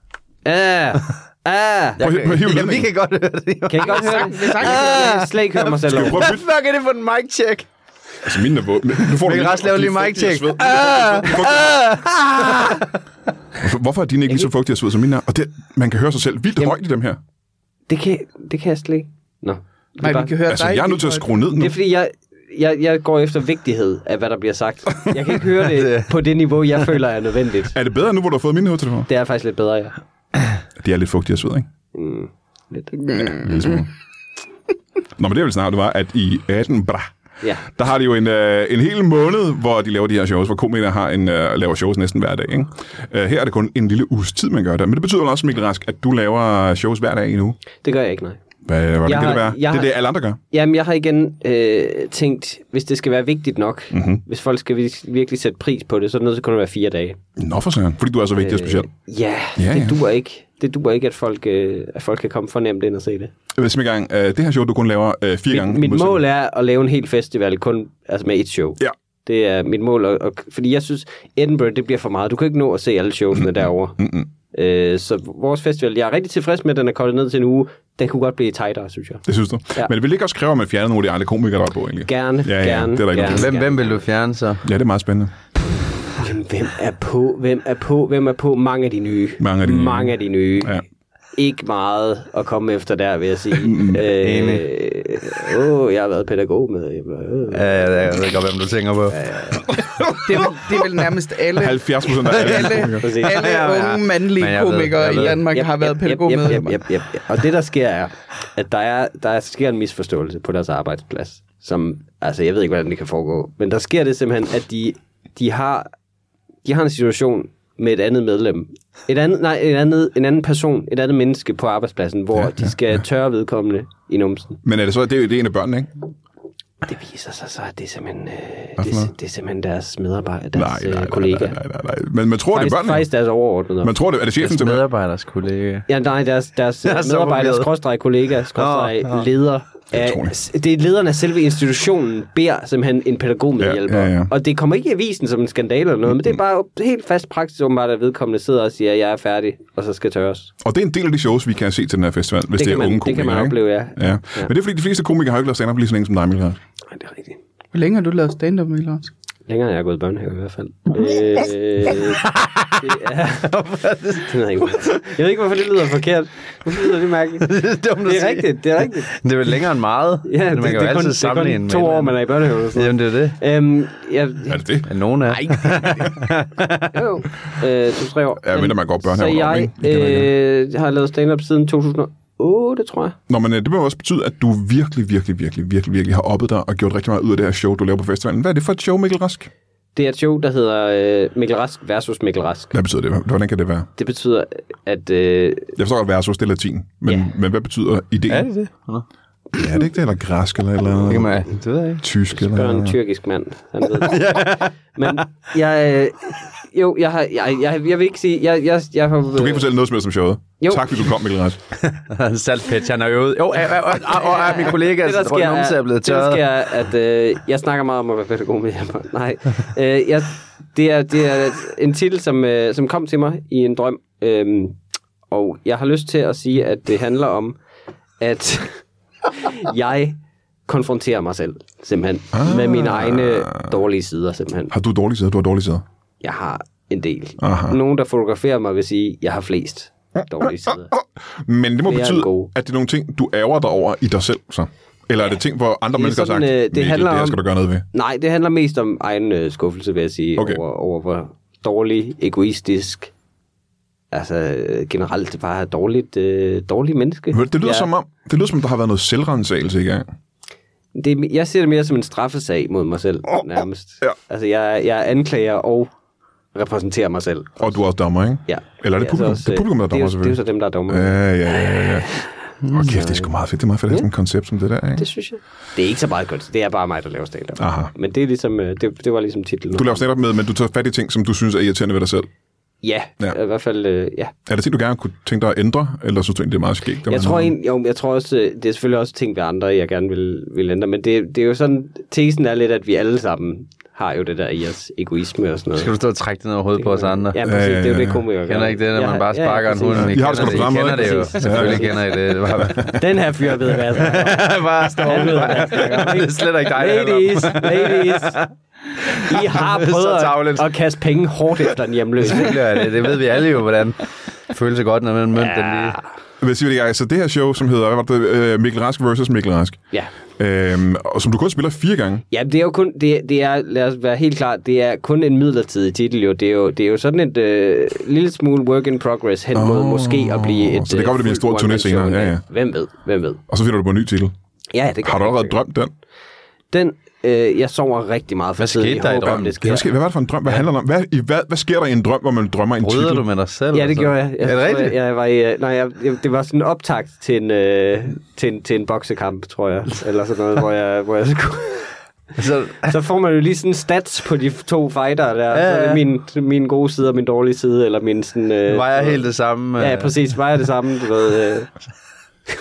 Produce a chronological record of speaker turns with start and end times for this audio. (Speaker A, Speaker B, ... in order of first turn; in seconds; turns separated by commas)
Speaker A: 0.5-2.0, Speaker B: 2.0-7.7, Speaker C: 2.0-2.9, Speaker A: 3.7-6.3, Speaker D: 3.9-5.2, Speaker C: 5.9-6.4, Speaker C: 8.2-11.7, Speaker B: 9.0-13.0, Speaker C: 13.6-17.2, Speaker A: 17.9-20.4, Speaker D: 20.0-21.3, Speaker C: 20.5-21.8, Speaker A: 21.6-27.8, Speaker B: 25.7-26.1, Speaker C: 27.7-29.1, Speaker A: 29.1-30.0, Speaker C: 30.8-31.7, Speaker A: 31.9-33.1, Speaker C: 33.1-33.9, Speaker C: 35.2-37.1, Speaker C: 37.7-47.6, Speaker A: 47.8-48.4, Speaker C: 48.7-50.4, Speaker A: 49.1-50.0, Speaker A: 50.5-57.2, Speaker C: 53.9-54.2, Speaker C: 57.4-58.9, Speaker A: 58.4-63.3, Speaker C: 59.6-60.0, Speaker C: 63.5-66.2, Speaker A: 65.5-79.3, Speaker C: 74.0-74.3, Speaker C: 79.3-83.5, Speaker A: 82.1-84.0, Speaker B: 83.2-84.7, Speaker C: 84.6-85.3, Speaker A: 86.1-90.8, Speaker C: 89.4-90.8, Speaker A: 91.4-98.0, Speaker C: 93.6-94.0, Speaker B: 94.0-94.7, Speaker B: 97.5-99.2, Speaker A: 99.1-99.8, Speaker D: 100.2-106.8, Speaker C: 101.6-103.1, Speaker B: 102.3-105.4, Speaker A: 103.0-103.6, Speaker A: 105.1-115.9, Speaker A: 116.7-124.6, Speaker C: 122.4-123.0, Speaker C: 124.6-125.9, Speaker A: 126.8-131.6, Speaker C: 128.8-129.1, Speaker C: 130.6-133.1, Speaker A: 132.5-133.9, Speaker C: 133.8-134.8, Speaker B: 134.4-135.9, Speaker A: 135.9-150.5, Speaker B: 136.8-137.7, Speaker B: 138.6-139.3, Speaker C: 139.9-140.3, Speaker C: 143.6-144.3, Speaker C: 150.6-156.6, Speaker A: 152.6-154.5, Speaker A: 156.9-157.4, Speaker D: 157.7-159.1, Speaker A: 159.5-162.3, Speaker B: 162.0-165.0, Speaker A: 162.8-163.6, Speaker A: 164.2-169.2, Speaker B: 167.4-173.4, Speaker A: 170.2-174.6, Speaker C: 174.5-174.9, Speaker B: 174.8-177.1, Speaker D: 175.3-176.2, Speaker A: 176.9-183.2, Speaker C: 178.4-180.3, Speaker C: 183.3-189.5, Speaker A: 190.0-192.7, Speaker C: 192.7-193.9, Speaker A: 194.0-195.8, Speaker C: 195.8-198.5, Speaker B: 198.3-199.1, Speaker C: 199.6-201.4, Speaker B: 201.1-202.0, Speaker C: 202.0-203.0, Speaker A: 202.3-209.7, Speaker B: 203.9-205.2, Speaker C: 209.3-211.6, Speaker A: 210.6-211.1, Speaker B: 211.8-216.4, Speaker A: 214.1-227.6, Speaker A: 228.2-228.8, Speaker A: 229.3-234.7, Speaker C: 232.3-233.7, Speaker C: 234.7-235.8, Speaker A: 236.2-240.9, Speaker C: 237.4-237.8, Speaker C: 240.2-247.8, Speaker A: 241.9-242.5, Speaker A: 245.9-247.4, Speaker A: 247.9-253.1, Speaker A: 254.1-257.9, Speaker C: 257.3-260.1, Speaker A: 260.9-265.9, Speaker A: 266.6-267.8, Speaker C: 267.6-272.1, Speaker A: 268.5-272.0, Speaker B: 272.6-273.2, Speaker C: 272.7-275.1, Speaker A: 275.0-280.1, Speaker C: 277.6-277.9, Speaker C: 279.8-282.3, Speaker A: 282.8-284.3, Speaker C: 284.5-287.5, Speaker A: 287.1-295.9, Speaker B: 295.7-297.4, Speaker A: 296.8-308.5, Speaker C: 297.4-298.2, Speaker B: 298.5-303.1, Speaker C: 300.0-301.9, Speaker B: 303.9-310.7, Speaker A: 309.1-312.9, Speaker B: 311.7-316.0, Speaker A: 315.4-316.1, Speaker C: 316.4-319.8, Speaker C: 320.4-322.2, Speaker A: 322.3-333.4, Speaker C: 329.6-332.4, Speaker C: 333.5-334.3, Speaker A: 334.7-335.6, Speaker C: 335.0-335.9, Speaker A: 336.7-339.9, Speaker B: 338.6-339.8, Speaker C: 339.3-343.3, Speaker B: 342.8-345.0, Speaker A: 343.7-351.9, Speaker B: 352.4-353.0, Speaker A: 352.9-359.2, Speaker B: 355.5-356.1, Speaker B: 358.7-360.1, Speaker A: 359.8-361.7